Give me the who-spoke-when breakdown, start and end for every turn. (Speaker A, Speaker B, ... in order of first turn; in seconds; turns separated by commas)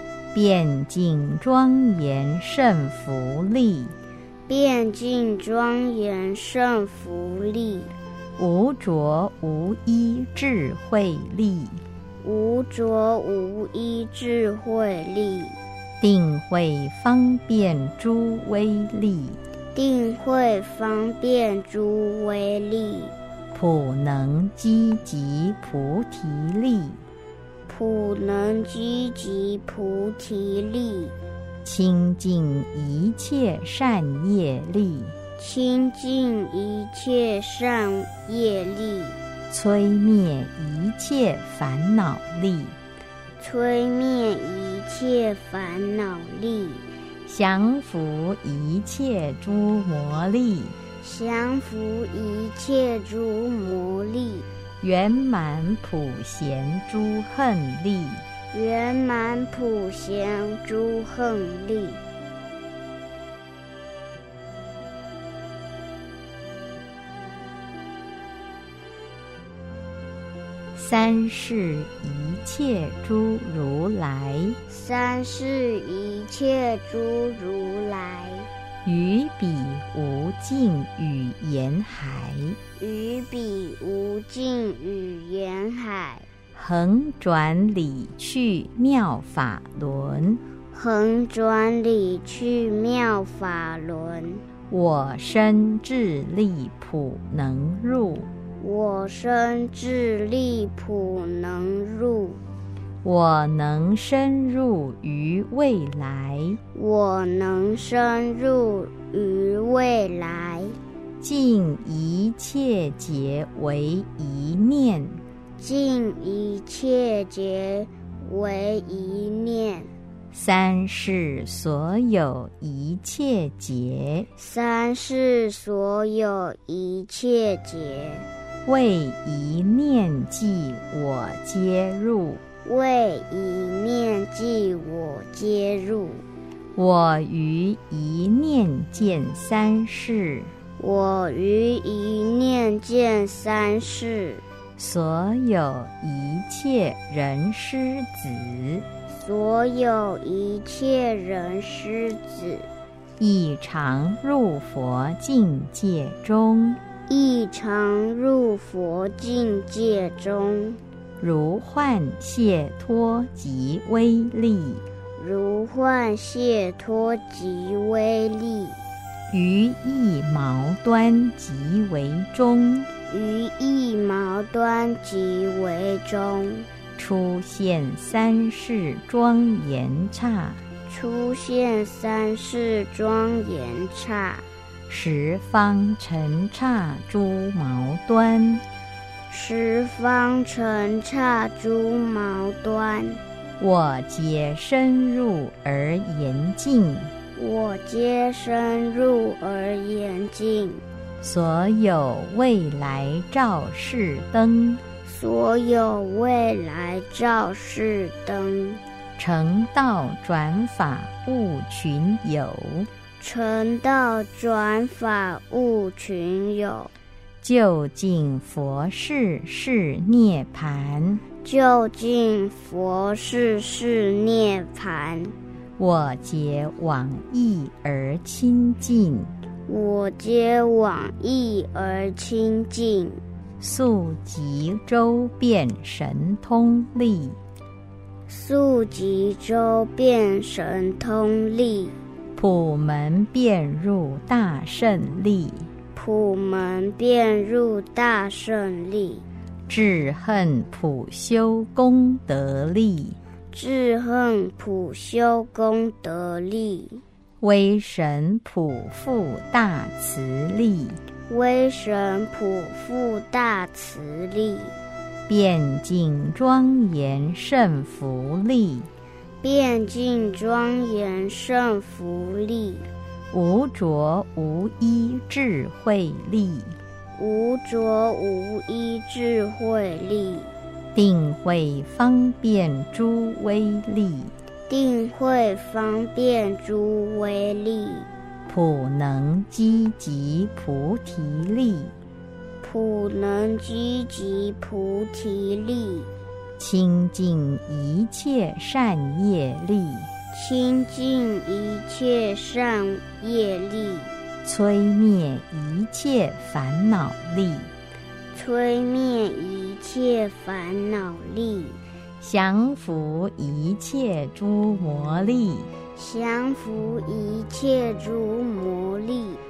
Speaker A: 0.3-4.0, Speaker B: 4.5-7.9, Speaker A: 8.4-11.8, Speaker B: 12.2-15.6, Speaker A: 16.0-19.4, Speaker B: 19.8-23.1, Speaker A: 23.5-27.0, Speaker B: 27.7-31.1, Speaker A: 31.6-35.1, Speaker B: 35.4-39.2, Speaker A: 39.5-42.8, Speaker B: 43.4-46.9, Speaker A: 47.3-50.8, Speaker B: 51.0-54.5, Speaker A: 54.8-58.2, Speaker B: 58.5-62.0, Speaker A: 70.7-74.6, Speaker B: 74.7-78.5, Speaker A: 78.8-82.6, Speaker B: 82.8-86.3, Speaker A: 86.5-90.4, Speaker B: 90.7-94.4, Speaker A: 94.7-98.3, Speaker B: 98.6-102.4, Speaker A: 103.0-106.6, Speaker B: 106.8-110.8, Speaker A: 111.2-115.2, Speaker B: 115.6-119.9, Speaker A: 120.3-124.3, Speaker B: 124.4-128.3, Speaker A: 128.7-132.4, Speaker B: 132.6-136.2, Speaker A: 136.8-140.5, Speaker B: 140.8-144.4, Speaker A: 144.8-148.9, Speaker B: 149.1-152.7, Speaker A: 153.2-156.8, Speaker B: 157.1-160.8, Speaker A: 161.2-164.8, Speaker B: 165.2-168.8, Speaker A: 169.3-172.9, Speaker B: 173.1-176.7, Speaker A: 177.0-180.6, Speaker B: 180.9-184.5, Speaker A: 184.9-188.6, Speaker B: 189.3-193.2, Speaker A: 193.6-197.1, Speaker B: 197.4-200.8, Speaker A: 201.2-204.8, Speaker B: 205.0-208.8, Speaker A: 209.2-212.9, Speaker B: 213.2-216.9, Speaker A: 217.4-221.2, Speaker B: 221.4-225.3, Speaker A: 225.8-229.3, Speaker B: 229.7-233.2, Speaker A: 233.6-237.4, Speaker B: 238.3-242.0, Speaker A: 242.4-245.7, Speaker B: 245.9-249.2, Speaker A: 249.7-253.2, Speaker B: 253.5-257.0, Speaker A: 257.4-261.0, Speaker B: 261.3-264.8, Speaker A: 265.3-268.9, Speaker B: 269.4-272.9, Speaker A: 273.3-276.8, Speaker B: 277.2-280.5, Speaker A: 280.9-284.3, Speaker B: 284.7-288.1, Speaker A: 288.5-292.0, Speaker B: 292.6-296.1, Speaker A: 296.6-300.1, Speaker B: 300.3-304.1, Speaker A: 304.4-307.7, Speaker B: 308.3-311.8, Speaker A: 312.2-315.7, Speaker B: 315.9-319.4